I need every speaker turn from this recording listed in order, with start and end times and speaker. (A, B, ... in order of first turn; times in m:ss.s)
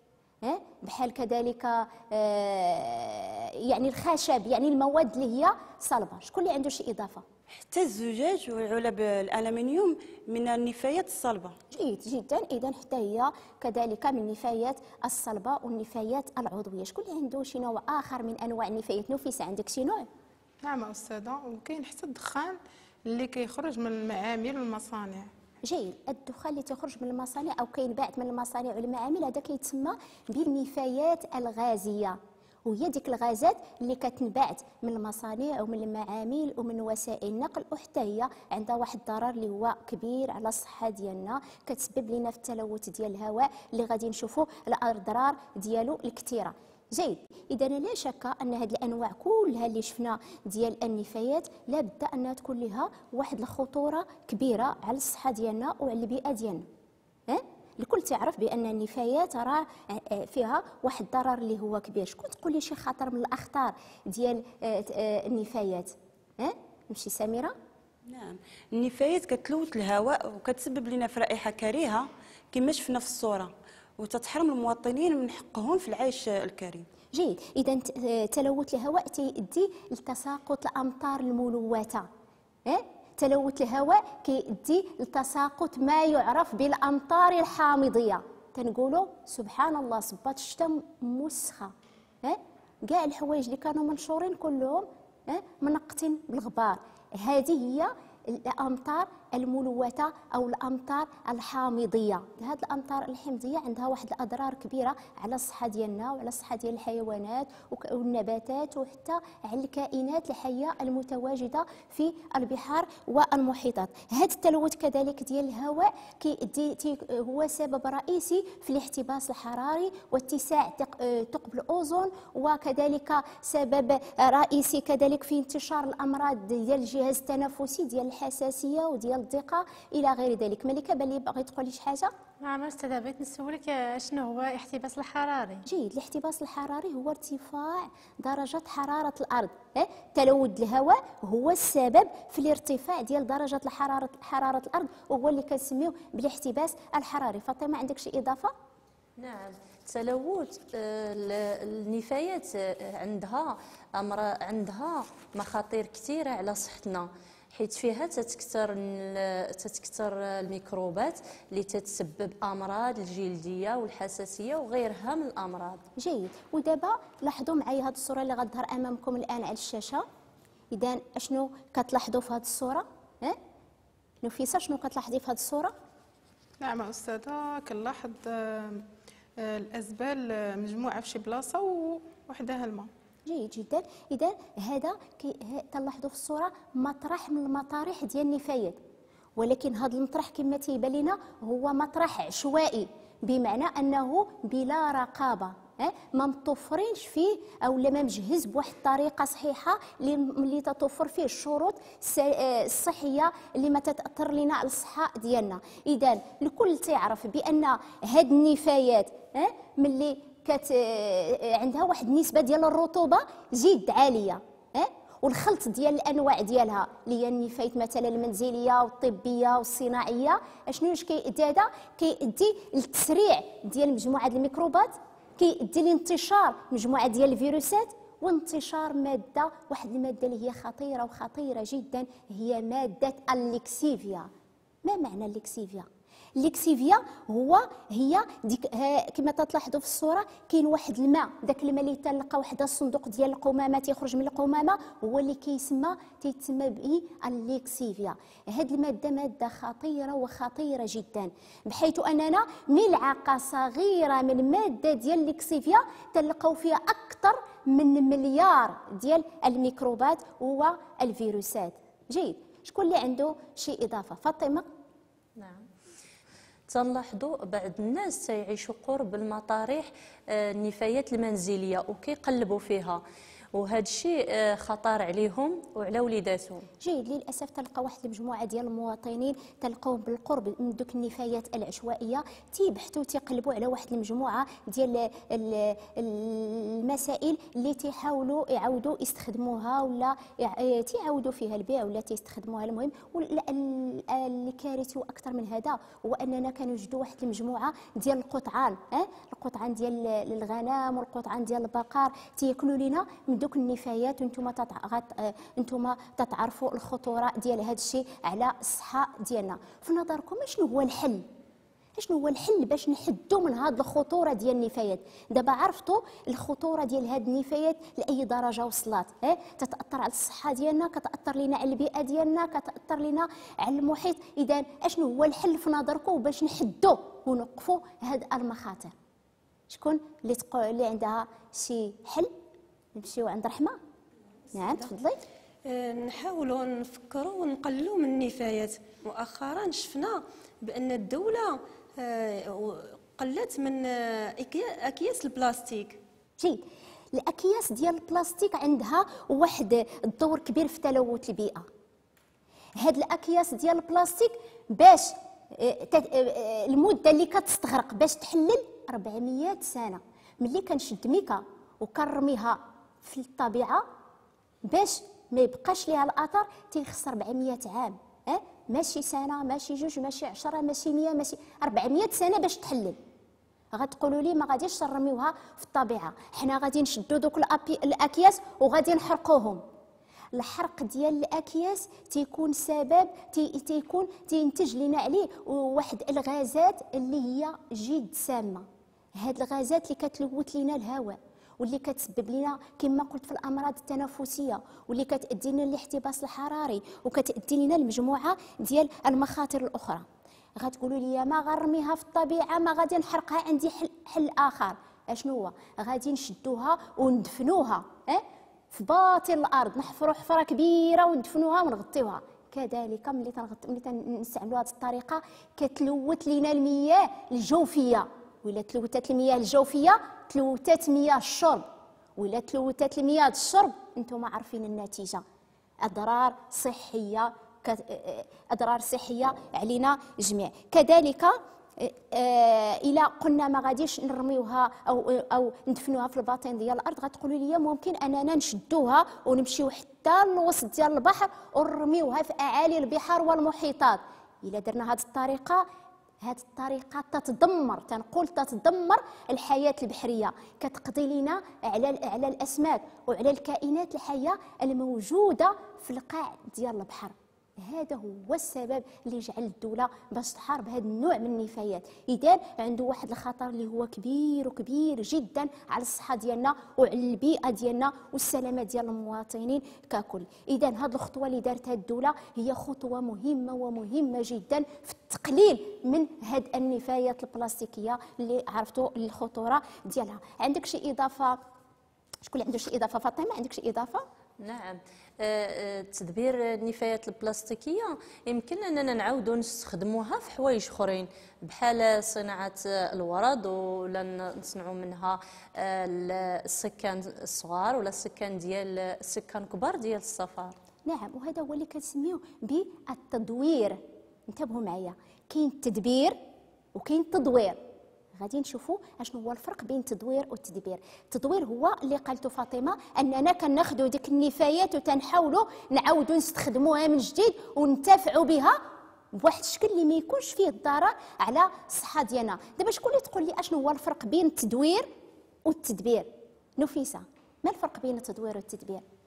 0:00.4-0:07.2 A
0:07.5-0:11.5 B
0:11.7-0:20.1 A
0:20.6-0:25.3 C
0:25.6-0:56.6 A
0:57.3-1:07.5 A
1:08.1-1:16.8 B
1:17.1-1:22.1 A
1:22.6-2:12.1 A
2:12.4-2:15.6 D
2:15.7-2:28.5 A
2:29.2-2:45.8 E
2:46.0-2:50.0 A
2:50.7-2:53.4 A
2:54.2-2:55.7 A
2:56.6-2:58.9 C
2:59.4-3:02.9 C
3:03.3-3:08.8 A
3:09.4-3:54.3 A
3:54.8-4:24.6 A
4:25.4-4:25.6 E
4:26.7-4:33.0 E
4:33.5-4:36.7 E
4:36.8-5:11.2 A
5:12.0-5:28.9 A
5:29.7-5:32.3 A
5:32.9-5:33.8 A
5:34.5-5:35.2 A
5:35.6-5:46.0 F
5:46.4-5:51.6 A
5:52.8-6:03.8 A
6:04.6-6:13.0 A
6:13.7-6:19.6 A
6:20.3-6:28.6 A
6:29.2-6:40.0 A
6:40.6-7:01.6 A
7:02.2-7:05.2 A
7:05.8-7:25.6 A
7:26.2-8:01.4 A
8:02.2-8:04.0 A
8:04.4-8:20.5 E
8:20.8-8:26.2 A
8:26.7-8:27.6 A
8:28.2-8:38.6 A
8:39.1-8:44.9 A
8:45.4-8:48.8 A